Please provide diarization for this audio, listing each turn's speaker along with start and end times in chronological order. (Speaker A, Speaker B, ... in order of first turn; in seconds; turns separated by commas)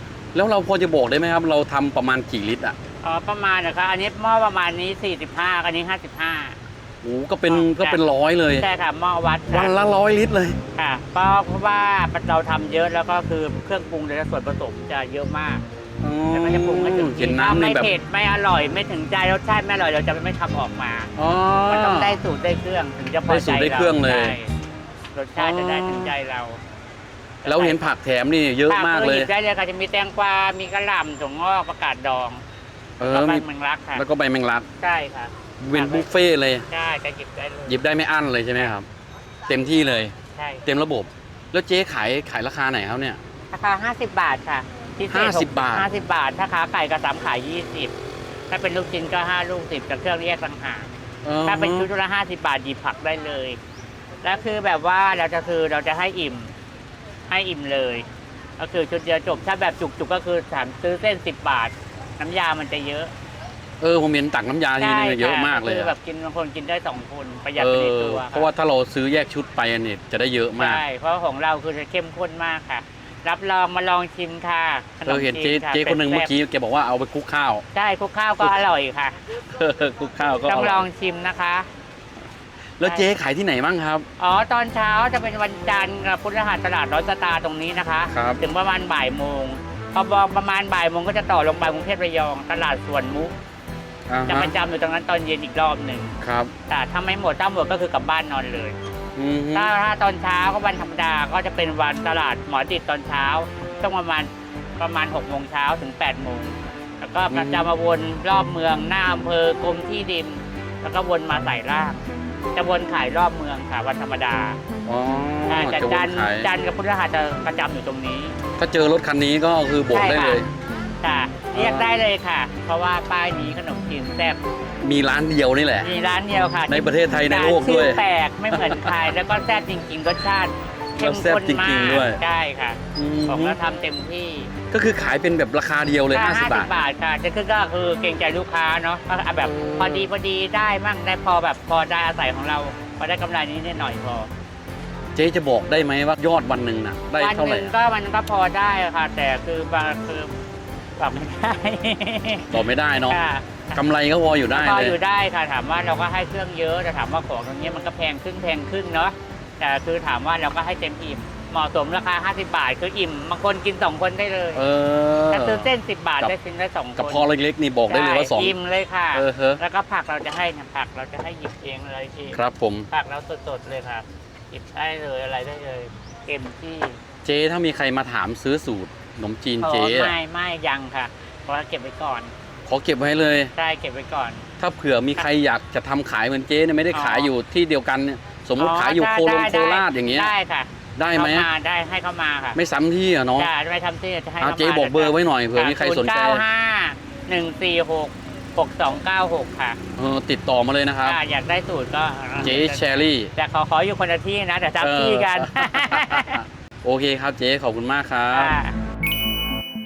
Speaker A: 0.3-2.8, Speaker B: 3.0-6.6, Speaker A: 7.0-8.7, Speaker B: 7.5-8.0, Speaker B: 8.6-9.7, Speaker A: 9.5-10.6, Speaker B: 10.8-15.6, Speaker A: 16.0-17.9, Speaker B: 16.3-21.1, Speaker A: 21.2-22.2, Speaker B: 21.7-24.5, Speaker A: 23.3-24.4, Speaker B: 25.1-26.6, Speaker A: 25.4-26.1, Speaker B: 27.4-27.9, Speaker A: 27.4-29.3, Speaker B: 28.7-32.4, Speaker A: 33.0-34.7, Speaker B: 33.0-34.0, Speaker B: 34.8-36.1, Speaker A: 35.6-36.6, Speaker B: 36.7-37.8, Speaker A: 37.6-38.9, Speaker A: 39.5-43.2, Speaker B: 40.4-40.6, Speaker B: 43.5-47.9, Speaker A: 45.1-45.9, Speaker B: 48.5-50.9, Speaker A: 51.2-51.9, Speaker B: 51.4-53.6, Speaker B: 54.2-56.5, Speaker B: 57.3-58.0, Speaker B: 58.6-63.1, Speaker A: 63.8-66.0, Speaker B: 64.8-68.5, Speaker A: 67.5-70.8, Speaker B: 70.5-76.3, Speaker A: 75.0-77.6, Speaker B: 77.7-79.2, Speaker A: 79.5-80.8, Speaker B: 80.5-81.7, Speaker A: 82.8-84.0, Speaker B: 84.2-93.3, Speaker A: 88.1-88.4, Speaker A: 94.1-94.5, Speaker B: 94.3-96.1, Speaker A: 96.2-96.5, Speaker B: 96.7-98.8, Speaker A: 99.2-99.7, Speaker B: 99.5-112.0, Speaker A: 107.3-107.7, Speaker B: 112.5-114.6, Speaker A: 114.8-116.5, Speaker B: 115.5-118.3, Speaker A: 118.6-120.5, Speaker B: 119.9-120.4, Speaker B: 121.0-124.4, Speaker A: 121.5-121.9, Speaker A: 124.8-125.9, Speaker B: 125.8-134.5, Speaker A: 126.7-129.0, Speaker A: 131.0-132.2, Speaker A: 132.9-133.6, Speaker A: 134.7-136.7, Speaker B: 136.1-144.3, Speaker A: 139.4-140.1, Speaker A: 145.1-147.7, Speaker B: 147.2-150.3, Speaker B: 151.0-153.8, Speaker A: 152.5-153.2, Speaker A: 153.7-155.0, Speaker B: 154.5-164.6, Speaker A: 164.5-166.3, Speaker B: 165.3-167.3, Speaker A: 167.0-168.5, Speaker B: 167.9-172.4, Speaker A: 169.1-169.6, Speaker A: 172.3-172.9, Speaker B: 172.9-177.0, Speaker A: 177.2-180.2, Speaker B: 179.6-182.3, Speaker A: 182.7-183.5, Speaker B: 183.6-184.4, Speaker A: 184.6-190.3, Speaker B: 186.9-187.3, Speaker B: 188.6-192.6, Speaker A: 190.9-191.5, Speaker A: 192.5-193.5, Speaker B: 193.4-199.8, Speaker A: 194.4-196.4, Speaker A: 200.0-201.2, Speaker B: 201.0-206.4, Speaker A: 202.4-203.3, Speaker A: 204.8-208.6, Speaker B: 208.3-208.7